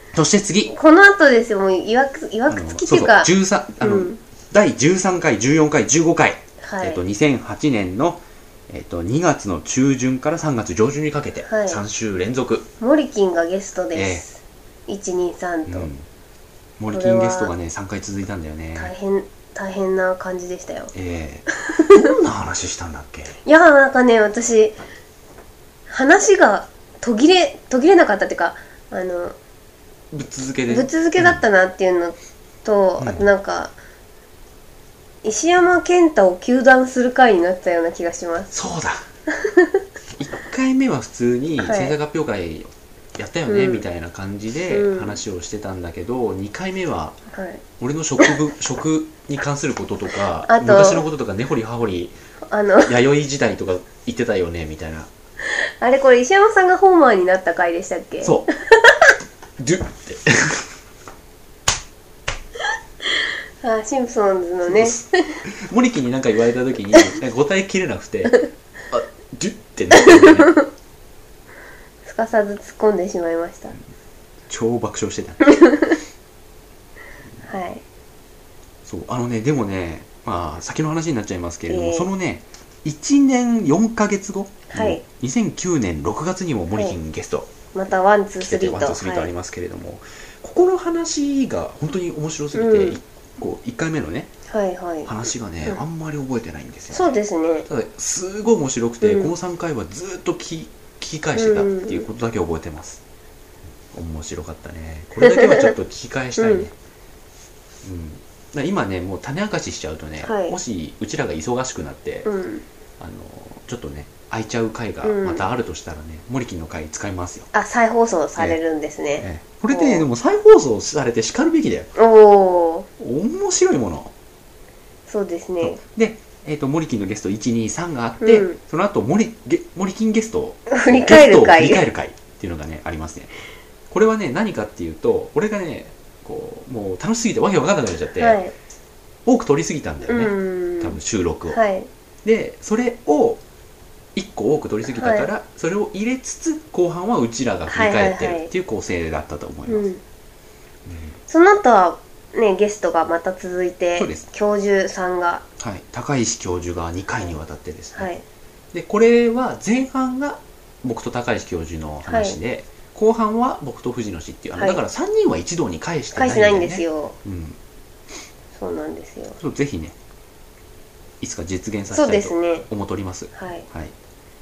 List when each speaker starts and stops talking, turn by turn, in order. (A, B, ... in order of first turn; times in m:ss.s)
0:00.1-0:00.7 A
0:00.7-0:04.2 B
0:02.5-0:12.7 A
0:06.6-0:07.0 B
0:11.5-0:11.8 B
0:12.8-0:15.9 B
0:13.9-0:14.2 A
0:15.7-0:16.0 A
0:16.8-0:18.9 A
0:16.9-0:17.5 B
0:18.8-0:20.9 B
0:20.9-0:23.4 A
0:21.7-0:22.1 B
0:23.4-0:24.8 B
0:25.9-0:29.4 B
0:30.1-0:31.4 A
0:30.7-0:33.7 B
0:33.0-0:33.2 A
0:35.2-0:38.5 B
0:38.5-0:39.0 A
0:39.3-0:39.8 B
0:40.2-0:47.2 A
0:41.6-0:42.0 B
0:43.5-0:43.8 B
0:44.7-0:45.2 B
0:47.3-0:47.6 B
0:47.8-0:52.2 A
0:50.5-0:51.0 B
0:52.5-0:52.9 B
0:52.8-0:55.1 A
0:55.5-0:59.1 B
0:58.2-0:58.5 A
0:59.6-1:00.7 A
1:03.6-1:05.4 B
1:04.7-1:10.5 A
1:09.9-1:10.7 B
1:12.0-1:13.8 B
1:14.5-1:15.6 A
1:15.5-1:16.0 B
1:17.4-1:17.8 B
1:18.8-1:27.5 A
1:21.7-1:22.1 B
1:24.7-1:25.0 B
1:27.7-1:29.3 B
1:28.4-1:34.3 A
1:32.5-1:33.0 B
1:34.5-1:35.1 B
1:35.1-1:37.1 A
1:36.9-1:37.7 B
1:37.7-1:43.0 A
1:39.0-1:39.3 B
1:41.4-1:42.1 B
1:43.9-1:46.7 A
1:45.2-1:45.8 B
1:46.4-1:46.7 B
1:47.8-1:52.3 A
1:50.2-1:50.6 B
1:52.3-1:52.6 B
1:53.0-1:57.5 A
1:55.0-1:55.4 B
1:57.5-2:00.1 B
1:59.2-2:01.9 A
2:02.0-2:02.9 B
2:03.0-2:04.1 A
2:05.1-2:05.8 B
2:05.6-2:13.3 A
2:08.2-2:08.6 B
2:10.7-2:11.8 B
2:13.9-2:18.4 A
2:18.2-2:18.5 B
2:19.2-2:21.6 A
2:20.1-2:21.9 B
2:22.2-2:23.4 A
2:24.2-2:29.8 A
2:24.9-2:25.3 B
2:27.7-2:28.5 B
2:29.7-2:30.0 B
2:30.9-2:31.2 A
2:31.3-2:35.4 B
2:34.0-2:34.2 A
2:35.6-2:38.1 A
2:38.0-2:38.2 B
2:38.7-2:47.6 A
2:42.1-2:42.4 B
2:46.2-2:47.2 B
2:48.6-2:49.4 B
2:49.4-2:50.0 A
2:51.2-2:53.9 A
2:51.9-2:52.7 B
2:53.3-2:53.7 B